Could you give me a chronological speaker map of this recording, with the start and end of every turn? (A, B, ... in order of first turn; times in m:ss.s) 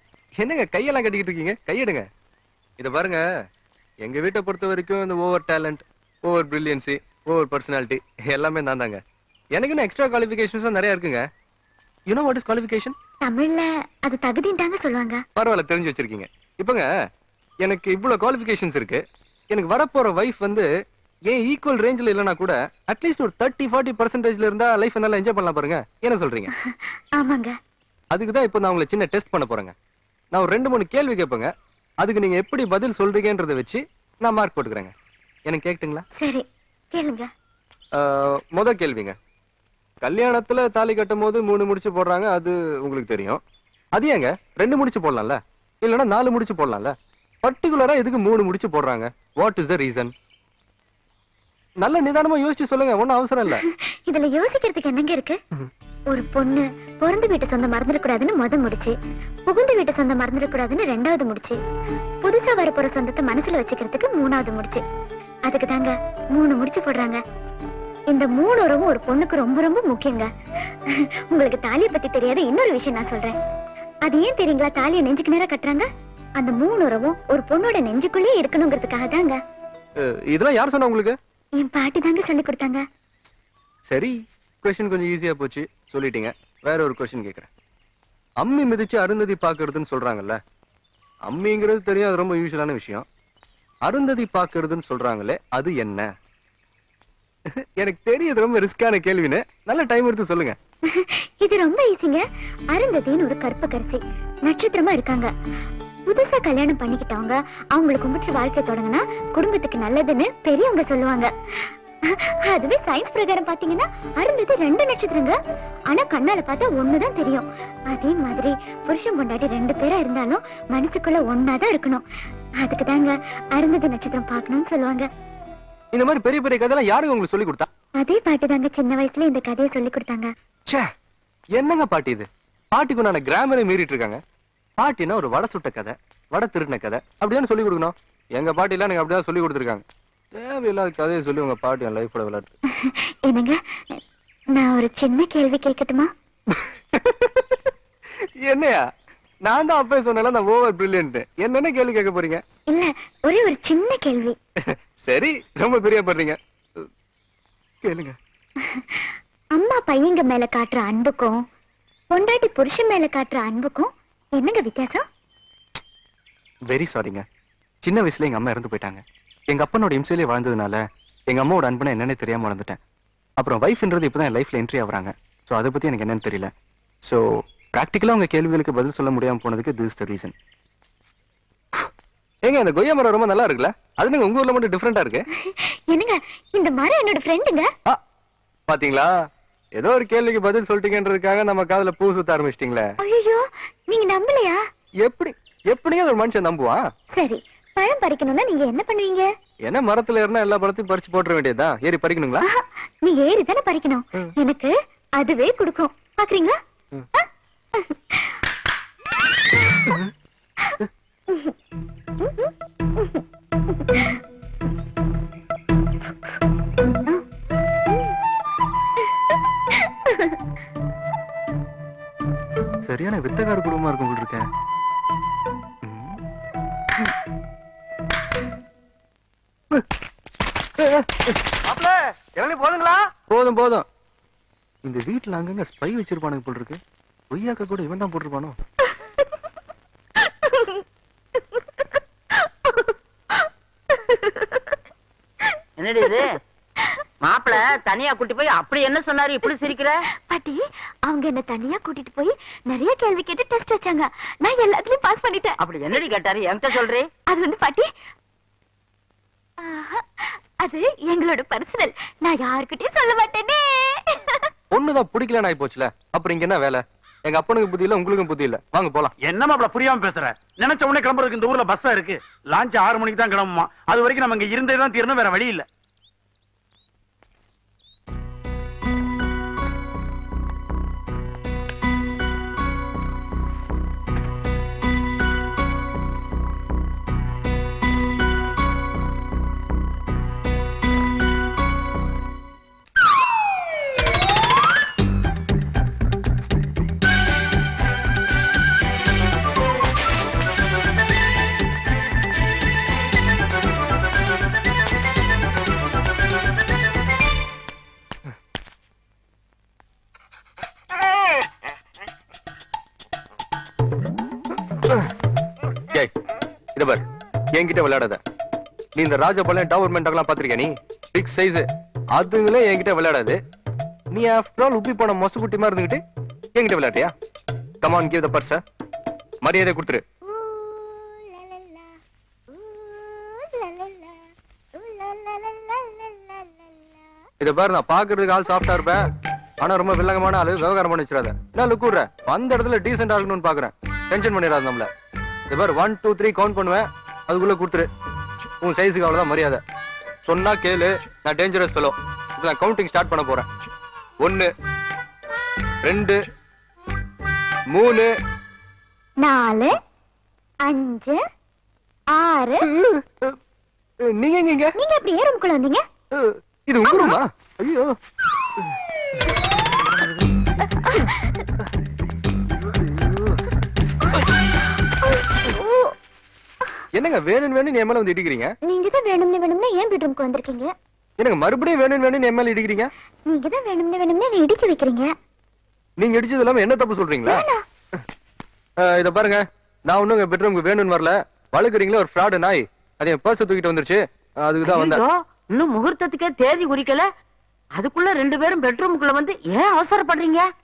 0:00.4-0:02.0 A
0:02.8-0:03.2 A
0:04.0-0:09.0 A
0:09.5-0:11.2 A
0:12.1-0:12.9 A
0:13.2-0:15.2 B
0:15.4-0:16.9 A
0:17.6-0:20.7 A
0:21.3-0:26.5 A
0:26.6-0:27.5 B
0:28.1-0:29.7 A
0:30.3-0:34.9 A
0:35.4-0:36.0 A
0:36.2-0:37.3 B
0:38.0-0:39.2 A
0:40.0-0:43.4 A
0:43.9-0:50.1 A
0:51.8-0:53.6 A
0:53.6-0:55.4 B
0:56.1-0:58.9 B
0:59.5-1:01.6 B
1:02.2-1:04.8 B
1:05.5-1:07.2 B
1:08.1-1:10.3 B
1:11.0-1:13.4 B
1:14.0-1:15.8 B
1:16.4-1:19.4 B
1:20.0-1:21.2 A
1:21.6-1:22.8 B
1:23.9-1:27.5 A
1:28.4-1:30.4 A
1:31.2-1:33.0 A
1:33.8-1:36.1 A
1:37.6-1:40.6 A
1:40.9-1:45.3 B
1:46.1-1:55.4 B
1:55.9-2:02.0 B
2:02.6-2:05.1 B
2:05.9-2:07.7 A
2:08.0-2:10.3 B
2:11.5-2:14.2 A
2:14.8-2:19.8 A
2:20.3-2:22.5 A
2:22.7-2:24.0 B
2:24.6-2:26.1 B
2:26.6-2:27.7 A
2:28.4-2:28.8 A
2:29.4-2:32.4 A
2:32.7-2:34.4 B
2:34.7-2:36.8 A
2:37.8-2:38.2 A
2:38.6-2:41.4 B
2:42.1-2:45.0 B
2:46.7-2:47.2 A
2:47.8-2:52.8 A
2:53.4-2:56.5 A
2:57.0-3:00.3 A
3:02.4-3:05.2 A
3:05.4-3:07.7 B
3:08.7-3:09.1 A
3:09.7-3:12.9 A
3:13.0-3:14.6 B
3:15.0-3:16.8 A
3:17.1-3:19.3 B
3:19.6-3:22.4 A
3:22.5-3:26.6 B
3:27.1-3:28.4 B
3:32.2-3:33.2 B
3:33.7-3:34.2 B
3:39.8-3:40.3 B
3:42.8-3:44.5 A
3:45.8-3:46.2 A
3:50.8-3:51.7 A
3:52.3-3:53.8 A
3:54.8-3:56.8 A
3:57.3-3:58.6 A
4:00.2-4:00.8 B
4:01.6-4:04.8 B
4:05.8-4:06.3 C
4:07.2-4:10.0 C
4:10.3-4:15.6 B
4:15.6-4:17.1 C
4:17.3-4:17.9 B
4:19.6-4:24.5 B
4:24.7-4:29.1 A
4:29.2-4:35.7 D
5:16.7-5:18.2 A
5:19.0-5:23.4 A
5:24.1-5:26.0 A
5:26.5-5:27.1 A
5:27.8-5:28.6 A
5:29.4-5:30.0 A
5:30.4-5:31.2 B
5:32.8-5:33.9 B
5:34.8-5:36.1 B
5:37.4-5:39.1 A
5:39.6-5:44.9 A
5:45.5-5:47.9 A
5:48.6-5:49.6 A
5:50.2-5:53.5 A
5:54.2-5:54.5 A
5:55.8-5:56.2 A
5:57.7-5:58.1 A
5:59.2-5:59.7 B
6:00.6-6:01.2 B
6:02.1-6:02.6 B
6:02.7-6:03.4 A
6:04.0-6:04.7 A
6:04.8-6:05.8 B
6:06.1-6:08.0 A
6:06.9-6:07.2 B
6:10.7-6:11.4 B
6:14.9-6:15.9 B
6:16.9-6:18.5 A
6:18.7-6:20.7 B
6:21.2-6:22.9 A
6:23.3-6:25.1 B
6:26.0-6:27.4 A
6:27.3-6:27.6 B
6:28.8-6:35.0 A
6:34.6-6:37.1 C
6:37.7-6:40.5 C